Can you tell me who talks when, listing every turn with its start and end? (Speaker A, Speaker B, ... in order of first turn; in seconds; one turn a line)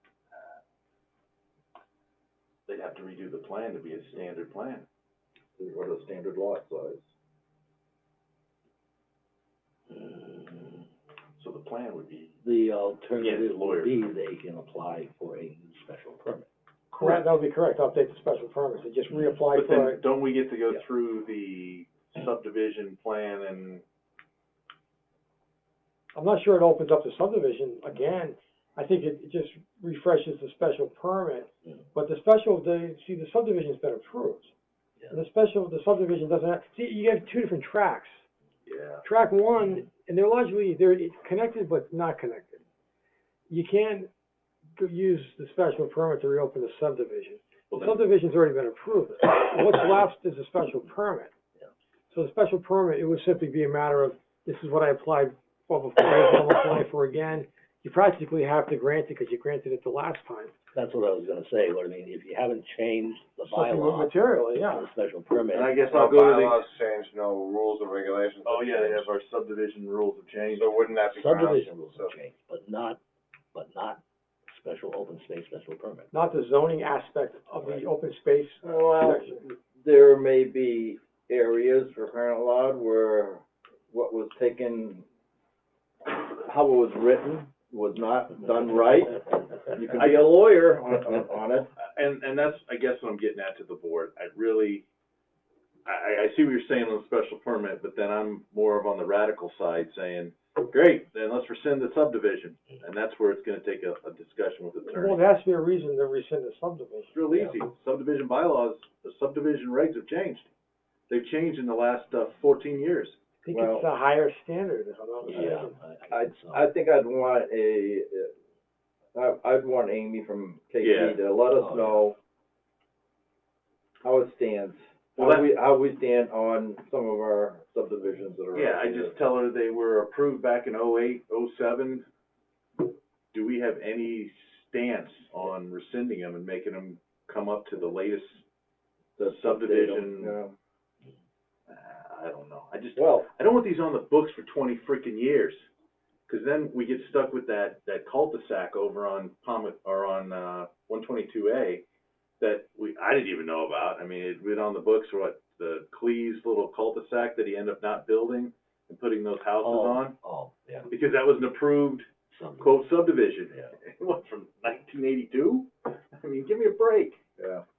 Speaker A: 0.3-0.6
Speaker A: 2.7-4.9
Speaker B: 5.6-7.1
Speaker C: 9.9-10.8
Speaker A: 11.4-12.4
Speaker C: 12.4-16.5
Speaker A: 13.2-13.9
Speaker A: 16.9-17.3
Speaker D: 17.0-20.0
Speaker A: 19.5-23.8
Speaker D: 26.1-34.5
Speaker D: 35.1-38.2
Speaker A: 38.7-39.0
Speaker D: 39.0-42.6
Speaker D: 43.5-44.1
Speaker D: 44.8-51.3
Speaker D: 52.1-60.5
Speaker C: 60.7-65.8
Speaker D: 63.5-64.9
Speaker A: 65.5-66.7
Speaker E: 65.9-69.1
Speaker A: 68.5-70.9
Speaker E: 70.5-72.1
Speaker C: 71.0-73.0
Speaker C: 73.5-76.1
Speaker D: 76.1-79.4
Speaker B: 78.6-85.0
Speaker B: 86.0-91.7
Speaker A: 90.0-90.3
Speaker A: 91.8-94.8
Speaker A: 95.9-105.3
Speaker D: 104.8-107.2
Speaker A: 107.1-110.5
Speaker A: 111.1-113.2
Speaker D: 113.4-115.7
Speaker B: 113.5-113.9
Speaker C: 115.2-116.7
Speaker B: 115.3-115.5
Speaker B: 116.1-118.3
Speaker B: 119.1-122.2
Speaker A: 120.8-121.2
Speaker C: 121.5-122.1
Speaker B: 124.0-129.1
Speaker A: 125.2-125.5
Speaker A: 128.5-132.1
Speaker A: 133.3-138.4
Speaker B: 139.2-140.6
Speaker A: 139.2-140.4
Speaker A: 141.7-145.6
Speaker B: 143.0-143.3
Speaker A: 146.3-151.8
Speaker A: 152.4-160.2
Speaker C: 159.6-160.9
Speaker A: 160.9-162.1
Speaker C: 162.3-162.8
Speaker A: 162.6-167.2
Speaker B: 167.4-167.6